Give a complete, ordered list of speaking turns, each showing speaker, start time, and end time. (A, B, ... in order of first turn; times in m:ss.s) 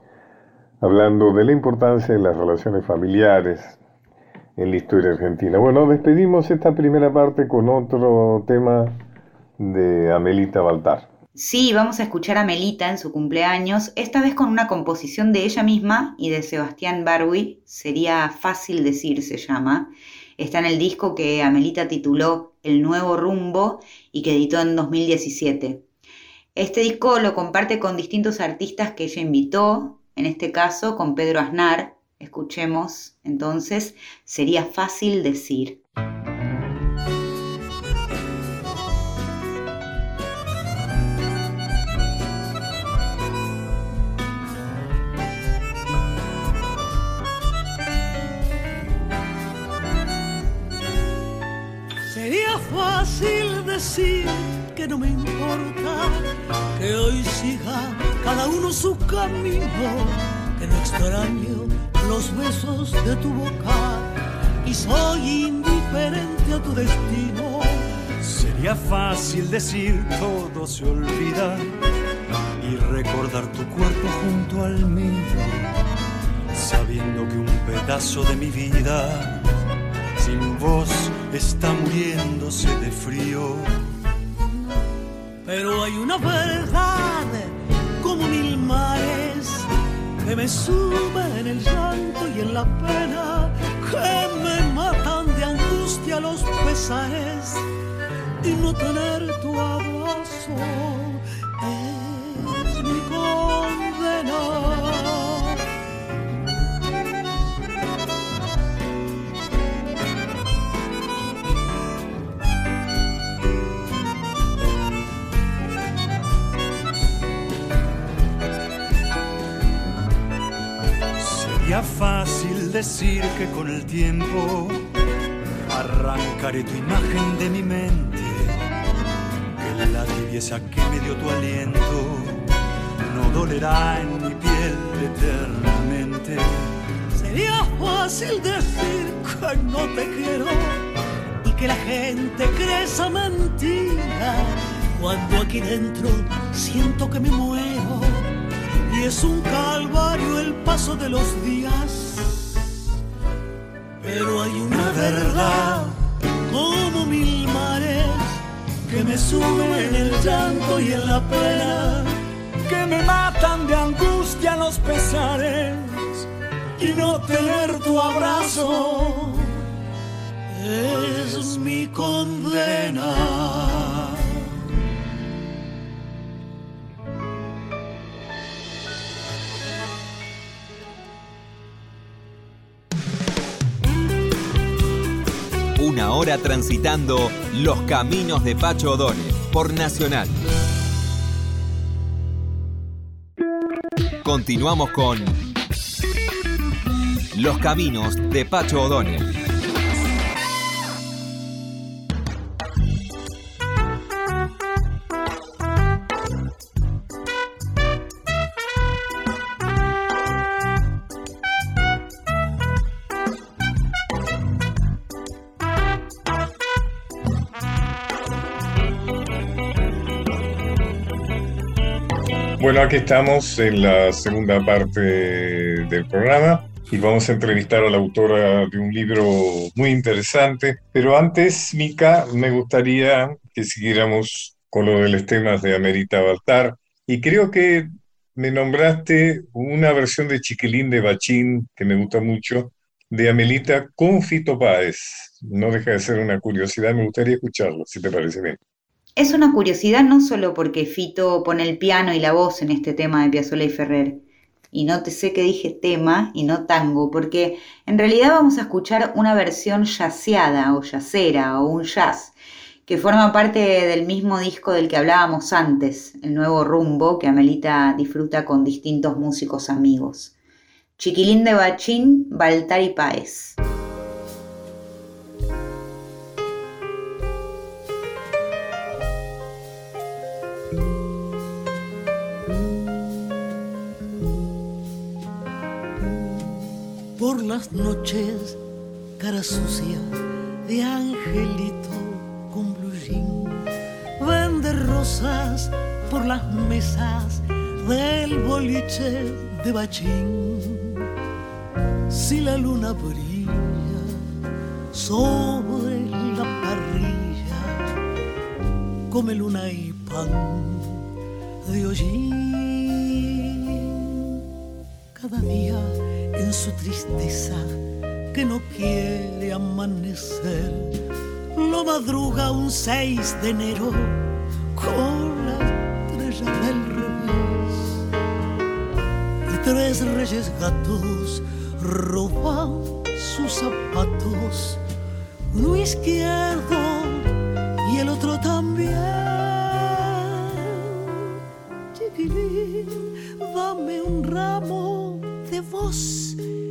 0:00.8-0:03.8 A
0:04.6-0:09.0 A
0:09.6-0:11.1 A
0:11.4-0:25.9 B
0:26.6-0:35.8 B
0:52.1-1:08.0 C
1:08.2-1:11.7 D
1:12.6-1:15.8 D
1:16.5-1:19.5 D
1:20.2-1:23.8 D
1:25.4-1:37.7 C
1:38.4-1:45.6 C
2:01.2-2:04.8 D
2:05.7-2:08.6 D
2:09.6-2:16.7 D
2:17.1-2:20.9 C
2:21.4-2:32.7 C
2:34.0-2:36.0 C
2:34.7-2:35.8 D
2:36.5-2:42.1 C
2:42.6-2:46.3 D
2:46.8-2:48.7 D
2:46.8-2:49.4 C
2:50.5-2:54.3 C
3:05.8-3:10.4 E
3:14.2-3:15.4 E
3:17.3-3:19.3 E
3:42.6-4:08.6 A
4:09.2-4:22.4 B
4:22.9-4:30.3 B
4:31.0-4:33.6 B
4:47.2-4:48.6 C
4:49.2-4:53.7 C
4:54.2-5:01.1 C
5:02.1-5:04.2 C
5:04.9-5:08.0 C
5:09.1-5:11.1 C
5:11.6-5:14.4 C
5:15.2-5:17.8 C
5:18.3-5:21.0 C
5:21.5-5:28.1 C
5:29.5-5:34.8 C
5:35.5-5:41.4 C
5:41.9-5:46.4 C